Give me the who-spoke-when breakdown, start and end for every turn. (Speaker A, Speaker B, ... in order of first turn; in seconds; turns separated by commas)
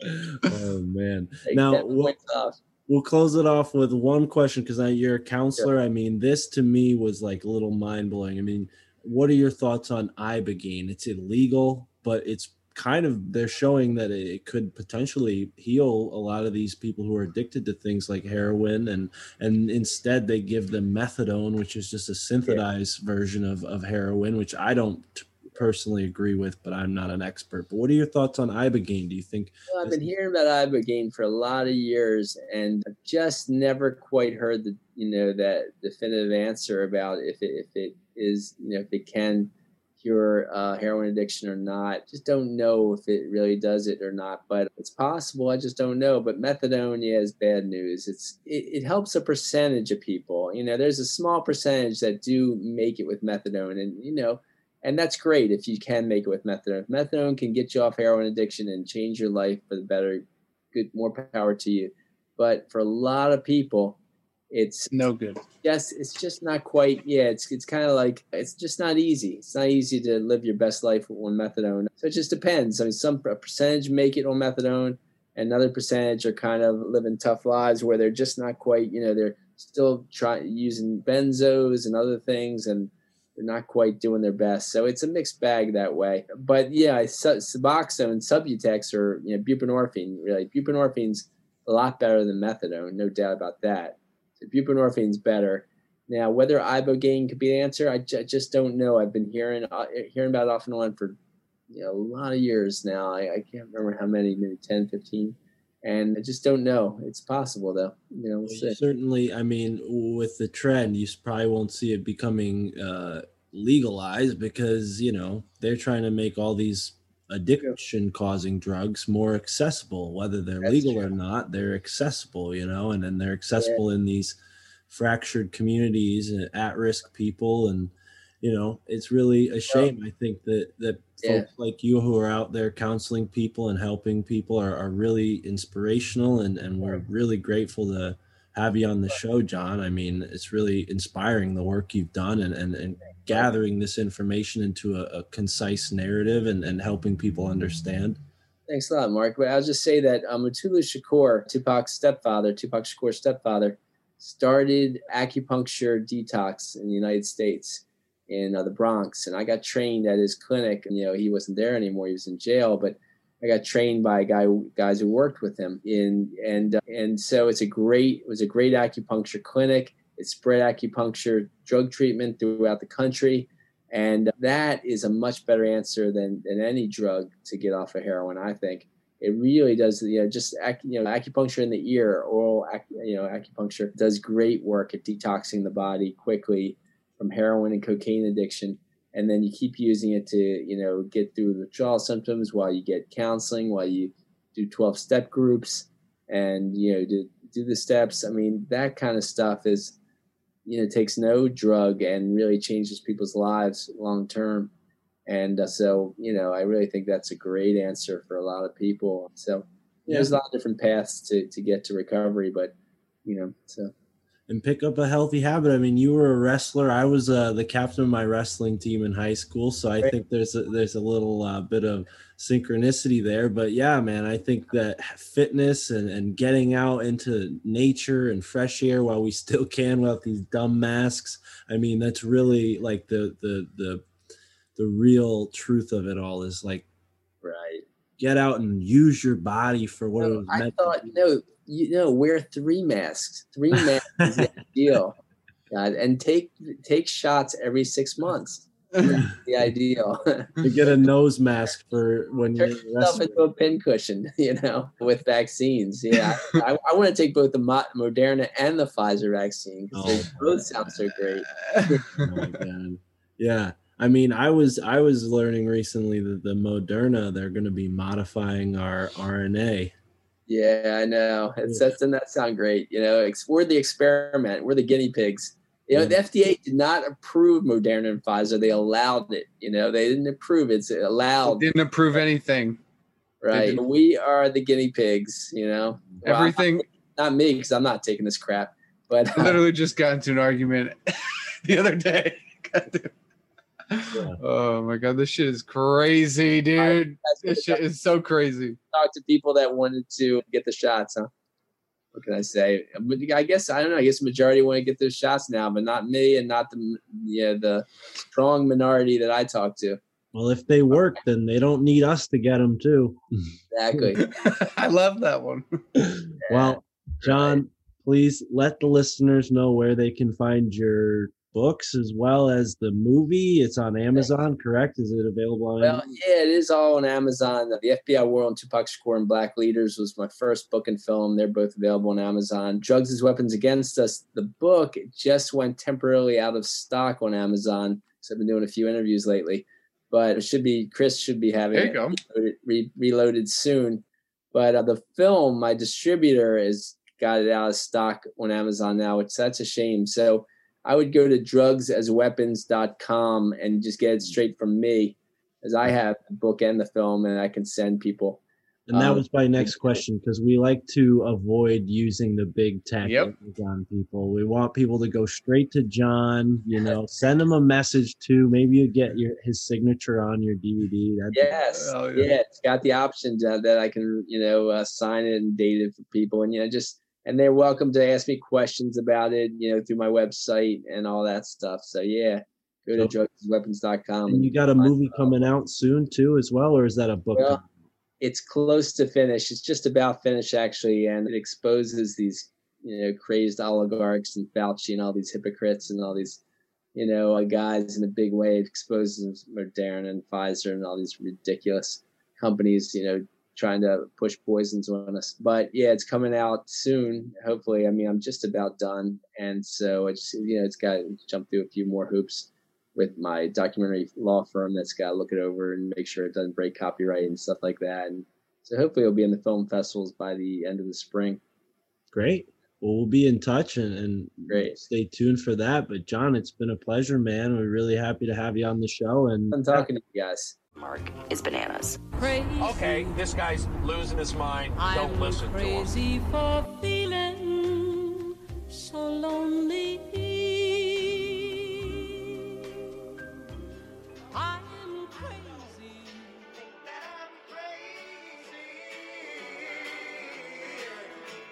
Speaker A: 0.4-2.1, Speaker B: 1.4-2.6, Speaker A: 2.9-30.0, Speaker B: 29.7-64.0, Speaker B: 64.5-64.9, Speaker C: 64.9-65.4, Speaker B: 65.6-101.2, Speaker B: 101.7-108.8, Speaker A: 108.5-124.4, Speaker B: 120.6-121.0, Speaker A: 124.9-148.2, Speaker B: 131.2-131.5, Speaker B: 143.0-143.5, Speaker B: 148.7-199.9, Speaker B: 200.7-204.7, Speaker B: 205.3-212.7, Speaker A: 210.1-210.3, Speaker B: 213.2-213.9, Speaker A: 214.5-234.1, Speaker A: 234.8-236.8, Speaker B: 237.4-237.8, Speaker A: 238.2-241.2, Speaker B: 240.2-245.2, Speaker A: 243.7-244.5, Speaker B: 245.7-250.5, Speaker A: 250.6-253.5, Speaker B: 252.6-261.5, Speaker A: 259.9-260.9, Speaker C: 261.7-262.4, Speaker A: 262.1-269.9, Speaker B: 270.5-281.7, Speaker A: 275.9-276.1, Speaker C: 281.4-282.8, Speaker B: 283.4-289.6, Speaker C: 283.5-283.8, Speaker C: 286.2-286.8, Speaker C: 289.3-293.1, Speaker C: 293.9-298.8, Speaker B: 296.8-297.8, Speaker B: 298.9-301.3, Speaker B: 302.1-310.0, Speaker A: 310.3-314.1, Speaker B: 313.7-314.2, Speaker C: 314.2-315.8, Speaker B: 316.4-317.6, Speaker A: 316.5-326.0, Speaker B: 325.8-358.4, Speaker C: 341.7-342.2, Speaker A: 358.9-371.5, Speaker B: 358.9-360.0, Speaker C: 363.0-363.3, Speaker B: 371.3-385.4, Speaker C: 371.6-372.4, Speaker A: 384.3-387.7, Speaker B: 387.3-387.6, Speaker B: 388.2-396.4, Speaker B: 396.9-421.4, Speaker A: 422.1-429.9, Speaker B: 424.5-424.8, Speaker B: 429.5-430.6, Speaker D: 432.1-433.2, Speaker E: 432.6-436.0, Speaker D: 434.7-442.6, Speaker D: 444.3-446.6, Speaker D: 447.2-451.1